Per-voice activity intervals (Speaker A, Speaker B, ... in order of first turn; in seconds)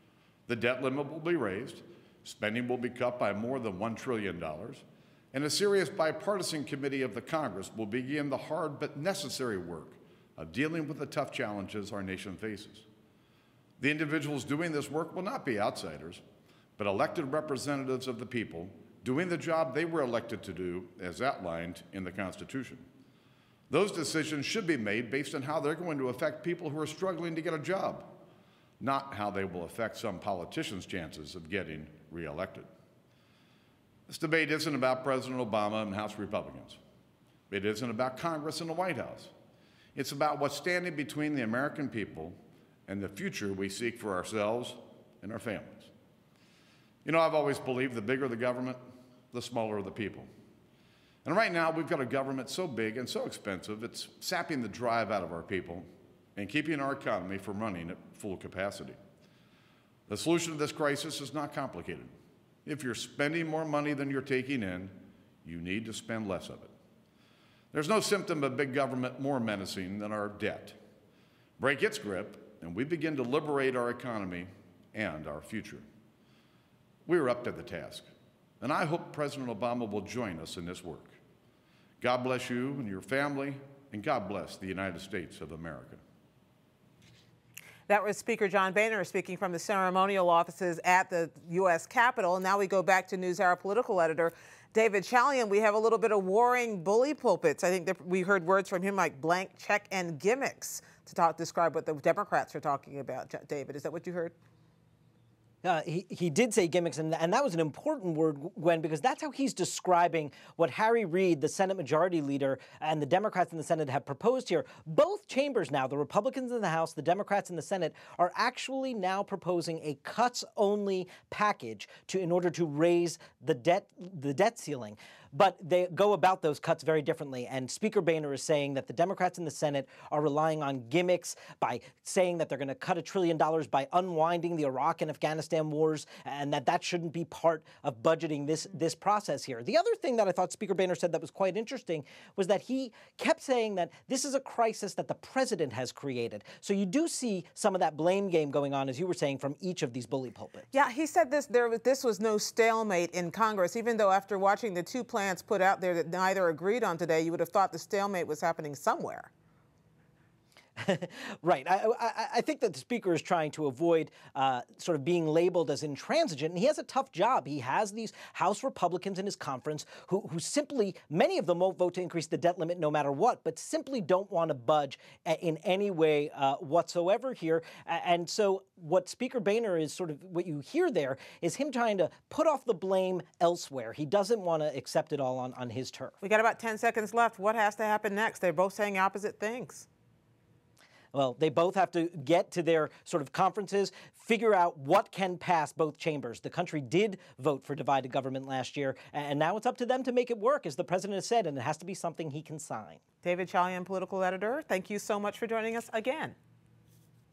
Speaker A: 0.5-12.8, 13.8-16.2, 16.8-22.9, 23.7-28.1, 28.8-32.7, 34.1-36.8, 37.5-39.3, 39.9-42.4, 42.9-45.9, 47.0-48.8, 49.3-50.3, 51.2-59.0, 60.1-62.1, 62.6-66.7, 67.7-70.8, 71.6-75.8, 77.0-78.0, 78.6-81.1, 82.0-86.0
Speaker B: 87.9-104.3, 150.7-159.3, 186.2-189.8, 203.2-206.3
Speaker C: 105.6-150.6, 160.8-186.1, 191.1-203.0